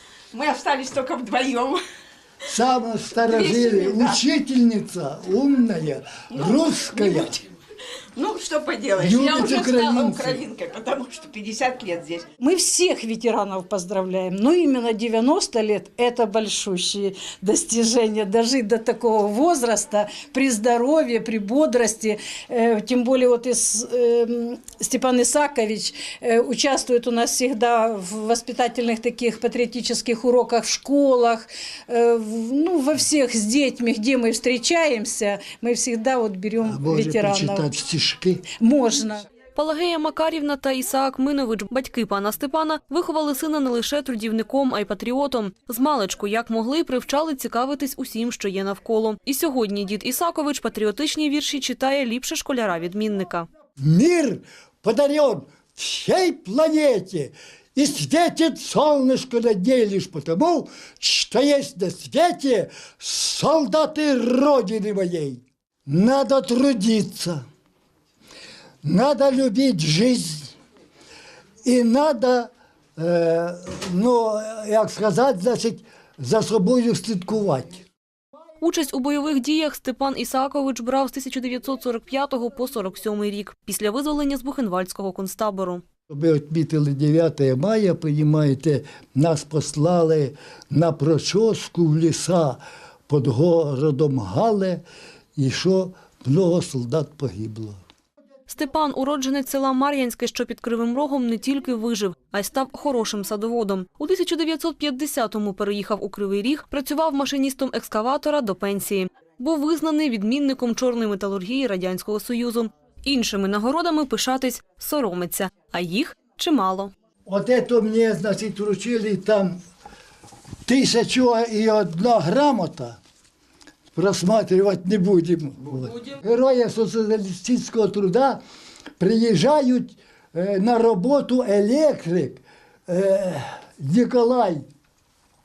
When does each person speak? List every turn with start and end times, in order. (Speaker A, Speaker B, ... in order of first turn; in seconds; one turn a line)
Speaker A: 0.3-1.8
Speaker B: 2.5-7.4
Speaker A: 3.2-4.2
Speaker A: 6.3-7.4
Speaker A: 8.2-12.3
Speaker B: 9.0-10.4
Speaker C: 12.4-37.7
Speaker B: 36.6-38.5
Speaker C: 38.6-39.3
Speaker D: 39.5-53.5
Speaker B: 53.8-67.5
Speaker B: 68.8-70.5
Speaker B: 71.7-77.9
Speaker D: 78.6-85.8
Speaker B: 86.1-94.8
Speaker B: 95.4-97.8
Speaker D: 98.5-116.9
Speaker B: 117.3-119.6
Speaker B: 120.7-123.0
Speaker B: 124.0-128.4
Speaker B: 129.0-134.7